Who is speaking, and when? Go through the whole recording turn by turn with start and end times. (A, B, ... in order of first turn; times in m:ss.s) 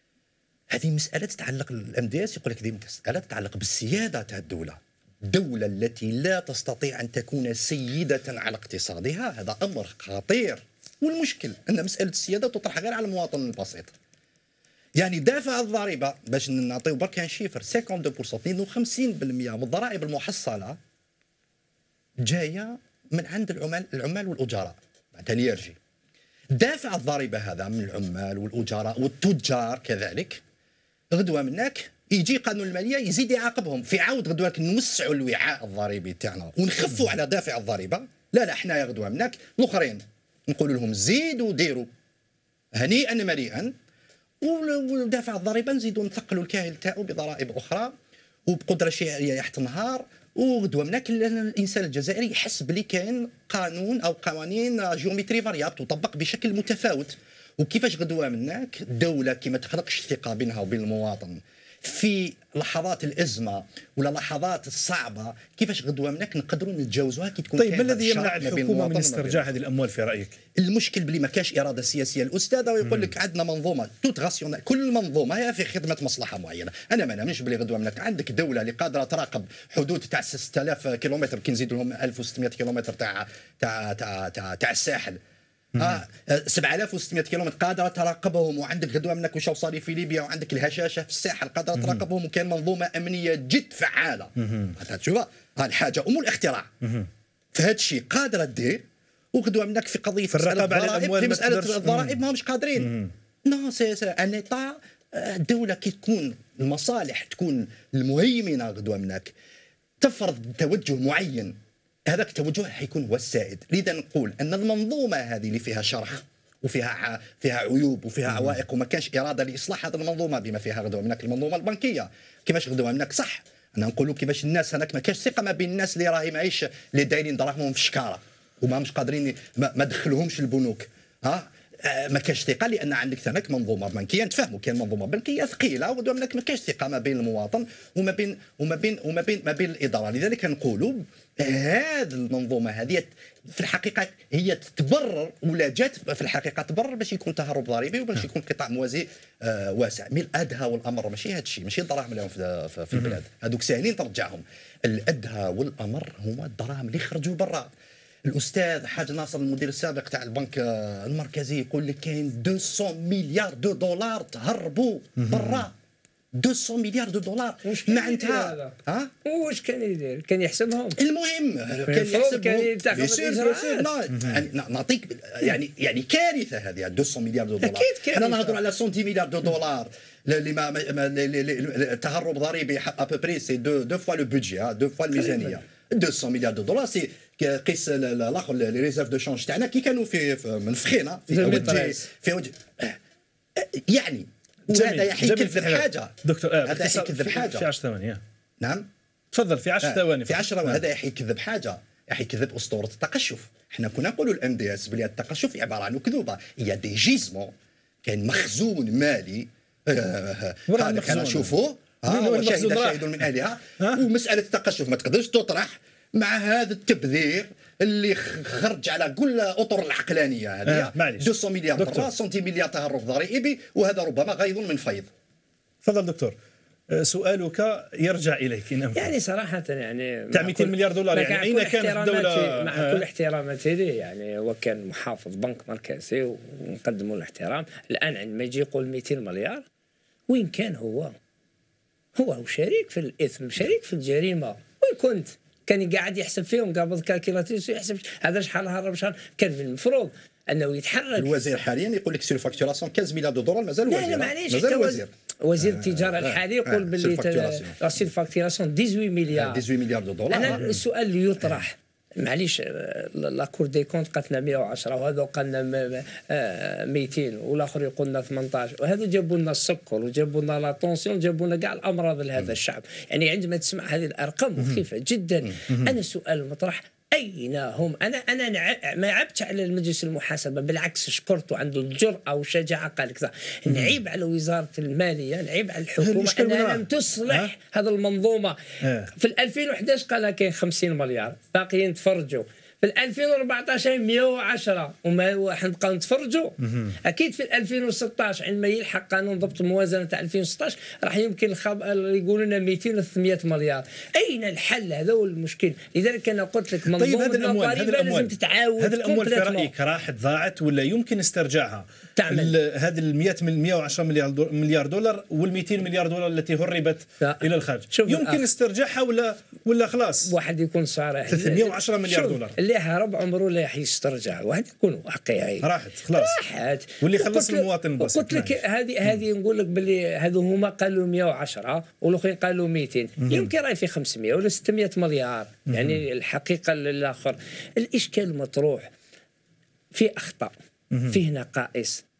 0:00.7-0:13.9 A
0:15.0-0:20.8 A
0:22.2-0:25.8 A
0:26.5-0:30.4 A
0:31.1-0:41.9 A
0:42.8-0:43.7 A
0:44.4-0:47.9 A
0:48.5-1:09.6 A
1:07.6-1:10.4 B
1:10.6-1:25.2 A
1:25.8-1:36.7 A
1:37.5-1:49.3 A
1:40.3-1:42.2 B
1:42.8-1:43.1 B
1:50.0-1:51.6 A
1:52.1-2:37.7 A
2:38.2-2:45.7 A
2:45.2-2:45.6 B
2:46.3-2:49.1 A
2:47.6-2:48.7 C
2:49.2-2:51.0 C
2:51.0-3:13.0 A
2:51.9-2:53.9 C
2:57.6-2:58.6 C
3:05.2-3:05.5 C
3:11.3-3:12.0 C
3:13.6-3:17.7 A
3:14.7-3:18.2 B
3:18.6-3:18.9 A
3:19.3-3:20.8 B
3:19.8-3:27.5 A
3:28.0-3:45.1 A
3:30.7-3:31.5 B
3:32.1-3:33.2 B
3:40.6-3:42.1 B
3:45.8-3:46.4 B
3:46.9-3:49.1 B
3:49.0-3:59.6 C
3:50.3-3:53.0 B
4:00.3-4:01.1 C
4:02.1-4:11.3 C
4:11.2-4:17.9 A
4:13.9-4:19.6 C
4:19.3-4:20.8 A
4:20.3-4:48.6 C
4:43.7-4:44.0 B
4:46.0-4:47.5 B
4:48.8-4:49.1 B
4:49.1-5:09.7 C
4:56.6-4:57.0 B
5:06.9-5:20.3 B
5:12.2-5:12.6 C
5:17.2-5:18.4 C
5:20.3-5:38.9 C
5:21.3-5:22.6 B
5:25.6-5:26.4 B
5:27.0-5:28.6 B
5:33.2-5:33.5 B
5:35.7-5:36.0 B
5:39.9-5:40.5 C
5:40.9-5:41.2 B
5:41.1-5:42.0 C